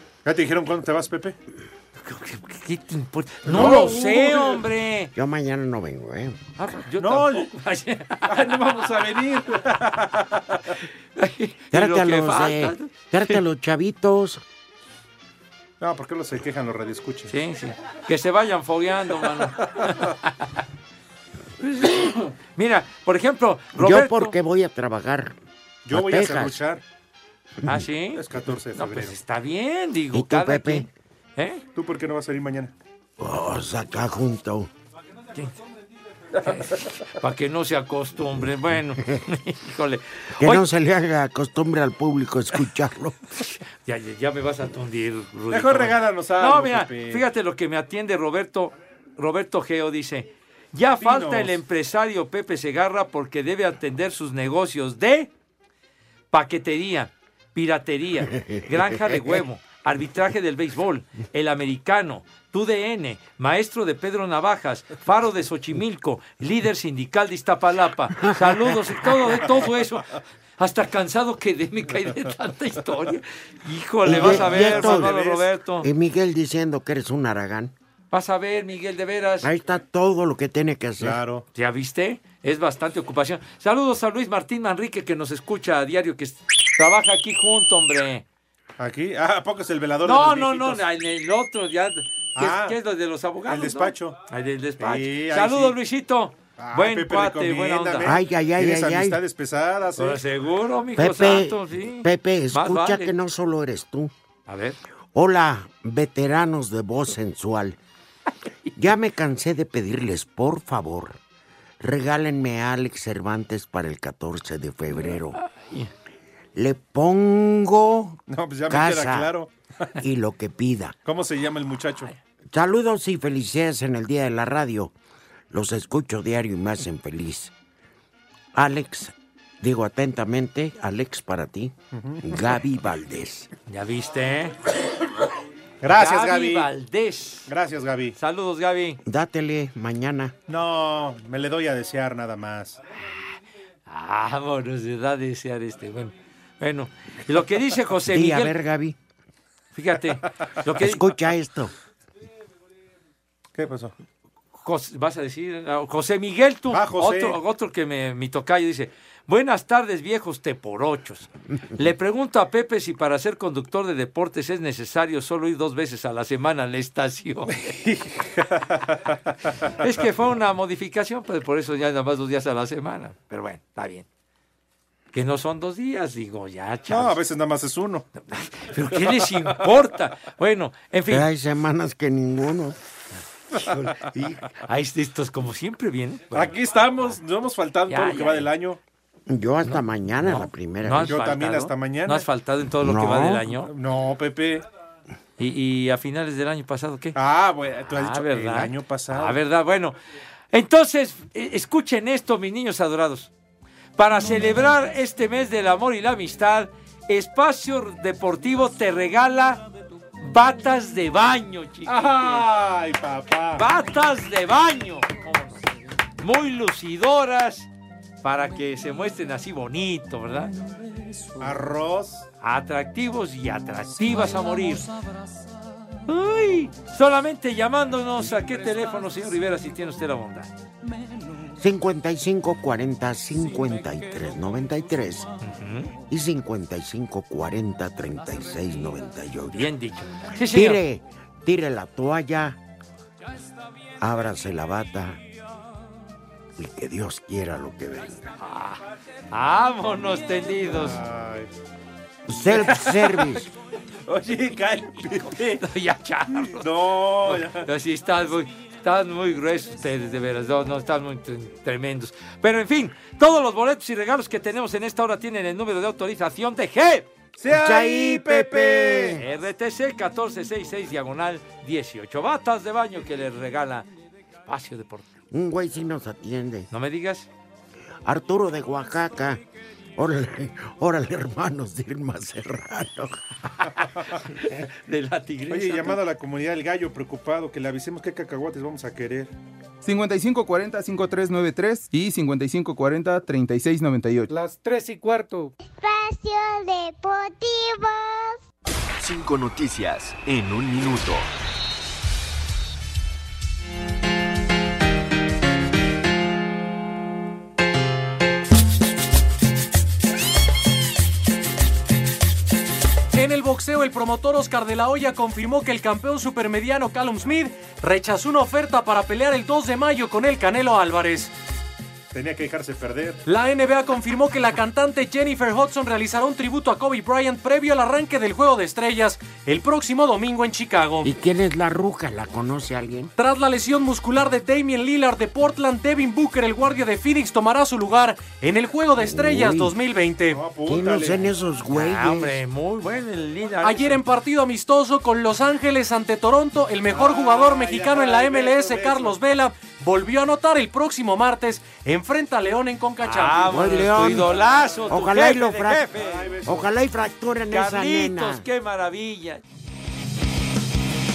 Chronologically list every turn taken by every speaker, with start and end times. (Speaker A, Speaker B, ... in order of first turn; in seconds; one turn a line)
Speaker A: 0.2-1.4
Speaker B: 2.0-5.1
Speaker A: 3.5-4.6
Speaker C: 3.5-4.0
Speaker C: 5.1-6.4
Speaker B: 6.6-9.0
Speaker A: 7.0-7.5
Speaker A: 8.3-10.7
Speaker B: 11.2-13.3
Speaker C: 11.7-14.4
Speaker A: 15.8-17.3
Speaker B: 17.3-20.4
Speaker B: 21.6-24.4
Speaker C: 23.8-25.3
Speaker A: 25.9-26.8
Speaker C: 25.9-26.6
Speaker B: 27.6-31.6
Speaker A: 28.1-29.2
Speaker C: 30.1-30.9
Speaker A: 31.7-32.7
Speaker C: 33.2-34.7
Speaker B: 36.4-40.6
Speaker C: 40.4-43.2
Speaker B: 43.8-55.3
Speaker A: 45.5-47.2
Speaker A: 51.0-51.6
Speaker B: 56.3-75.9
Speaker C: 58.3-59.2
Speaker C: 68.2-68.8
Speaker C: 74.0-75.2
Speaker A: 74.1-75.4
Speaker C: 75.8-77.7
Speaker B: 78.1-79.5
Speaker C: 79.4-81.2
Speaker A: 81.0-81.5
Speaker B: 81.5-88.2
Speaker A: 88.8-90.8
Speaker B: 90.0-98.2
Speaker A: 92.3-92.8
Speaker A: 93.5-94.2
Speaker A: 94.8-95.8
Speaker A: 96.6-100.2
Speaker C: 98.0-99.2
Speaker B: 100.0-103.1
Speaker C: 101.0-104.1
Speaker B: 104.5-104.8
Speaker C: 105.1-107.8
Speaker C: 108.8-111.2
Speaker C: 111.8-115.4
Speaker B: 115.0-115.9
Speaker C: 116.5-119.3
Speaker A: 118.3-119.5
Speaker C: 120.0-121.0
Speaker A: 121.0-122.1
Speaker C: 122.5-124.9
Speaker C: 125.5-127.5
Speaker C: 128.5-133.5
Speaker A: 131.9-132.2
Speaker B: 133.7-134.6
Speaker A: 135.8-136.7
Speaker B: 135.9-137.5
Speaker A: 137.5-138.2
Speaker B: 138.2-139.0
Speaker C: 139.0-140.3
Speaker A: 140.5-142.8
Speaker B: 143.9-148.5
Speaker C: 148.1-149.0
Speaker B: 149.7-151.1
Speaker C: 150.8-151.7
Speaker A: 153.6-153.9
Speaker B: 154.6-167.7
Speaker A: 156.7-157.4
Speaker A: 167.6-169.5
Speaker B: 169.8-174.1
Speaker B: 175.1-177.2
Speaker A: 176.9-178.1
Speaker B: 178.2-181.3
Speaker C: 181.1-182.8
Speaker B: 183.6-187.1
Speaker A: 186.3-188.8
Speaker B: 187.9-188.5
Speaker C: 189.3-191.2
Speaker B: 189.6-193.7
Speaker A: 191.0-192.2
Speaker C: 192.8-193.5
Speaker A: 193.6-194.6
Speaker B: 195.4-197.2
Speaker A: 197.2-199.4
Speaker B: 197.9-199.9
Speaker B: 200.5-203.3
Speaker B: 204.0-209.6
Speaker B: 210.2-212.5
Speaker A: 211.9-213.7
Speaker B: 213.6-215.7
Speaker B: 216.2-217.7
Speaker B: 218.2-220.5
Speaker A: 221.4-222.2
Speaker B: 222.4-224.9
Speaker B: 226.1-230.5
Speaker C: 231.5-235.3
Speaker B: 235.4-235.9
Speaker C: 236.1-239.7
Speaker B: 239.5-240.8
Speaker C: 240.4-242.6
Speaker C: 244.0-245.2
Speaker C: 246.6-248.3
Speaker B: 248.4-251.0
Speaker A: 250.7-251.5
Speaker C: 252.3-253.5
Speaker B: 252.7-253.1
Speaker A: 254.1-255.6
Speaker B: 255.6-256.7
Speaker A: 256.4-257.6
Speaker B: 257.2-267.1
Speaker A: 267.4-269.2
Speaker C: 267.5-269.2
Speaker B: 269.2-273.9
Speaker B: 274.5-275.1
Speaker C: 275.3-276.7
Speaker B: 276.7-277.3
Speaker C: 278.0-279.4
Speaker C: 279.9-283.2
Speaker B: 284.3-286.0
Speaker A: 285.5-289.3
Speaker D: 289.8-294.3
Speaker E: 295.6-298.4
Speaker F: 299.0-301.3
Speaker G: 313.1-321.3
Speaker A: 322.1-323.2
Speaker G: 323.2-331.1
Speaker C: 331.0-333.1
Speaker G: 333.2-340.4
Speaker C: 339.0-339.7
Speaker A: 340.3-341.3
Speaker C: 340.6-342.4
Speaker B: 341.7-344.0
Speaker G: 343.6-353.5
Speaker A: 346.9-349.2
Speaker B: 353.0-356.3
Speaker C: 353.5-354.3
Speaker C: 354.9-355.9
Speaker A: 355.9-356.7
Speaker C: 356.4-358.4
Speaker B: 357.5-359.4